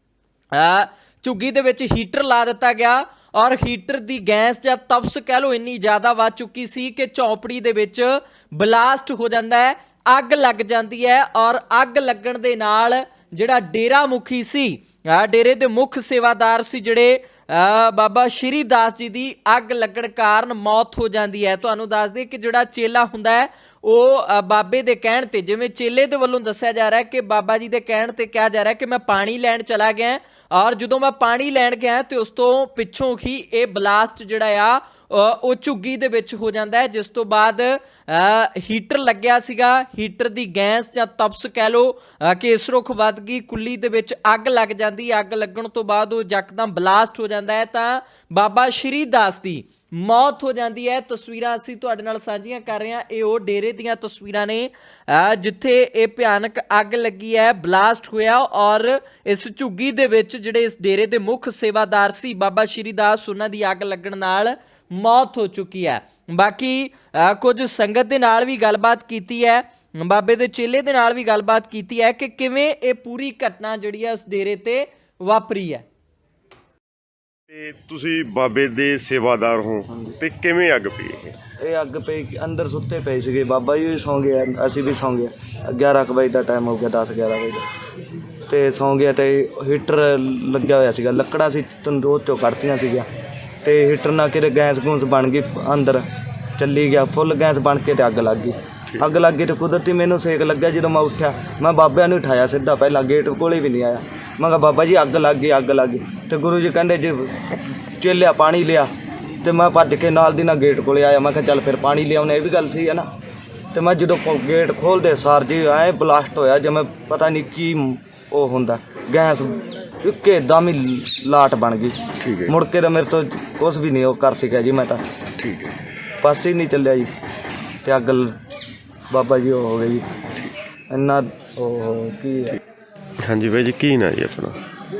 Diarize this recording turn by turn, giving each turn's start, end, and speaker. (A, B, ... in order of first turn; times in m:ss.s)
0:00.5-1:15.8 A
1:17.5-1:21.4 B
1:19.9-1:20.2 C
1:21.6-1:27.6 C
1:28.5-1:33.1 C
1:33.6-1:48.9 C
1:49.4-1:53.1 C
1:53.7-2:05.0 C
2:02.2-2:02.6 B
2:05.4-2:05.7 B
2:06.2-2:07.1 C
2:07.8-2:08.3 C
2:09.1-2:10.1 C
2:10.9-2:12.6 C
2:13.2-2:14.6 B